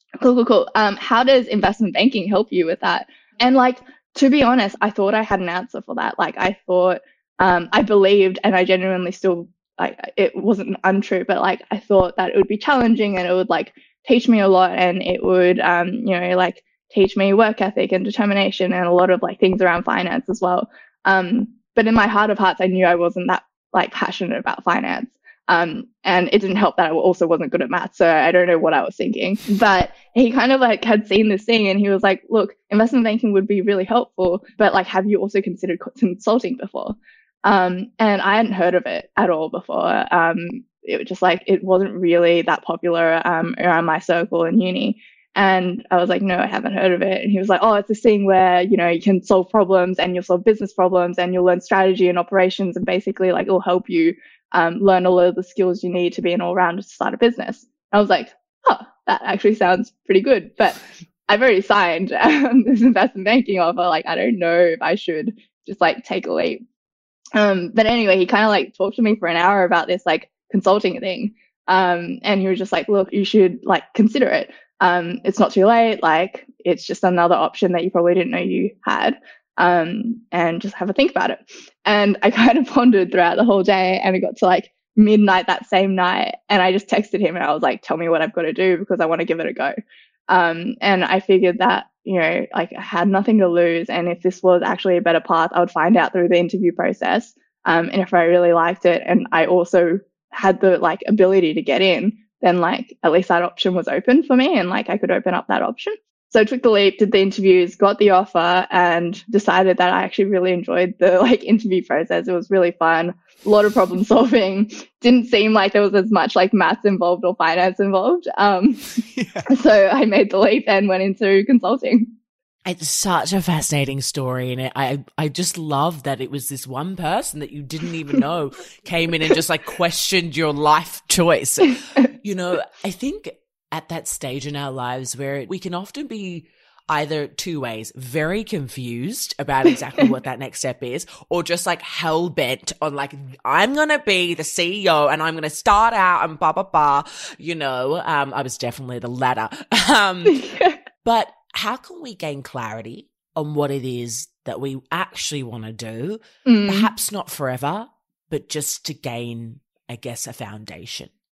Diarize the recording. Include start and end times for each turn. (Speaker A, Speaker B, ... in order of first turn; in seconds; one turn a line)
Speaker A: 0.2-66.6
Speaker A: 67.3-89.7
Speaker A: 90.3-119.0
Speaker B: 119.2-119.5
Speaker A: 119.5-122.1
Speaker B: 122.7-150.4
Speaker A: 150.2-150.8
Speaker B: 151.0-161.1
Speaker A: 156.4-156.9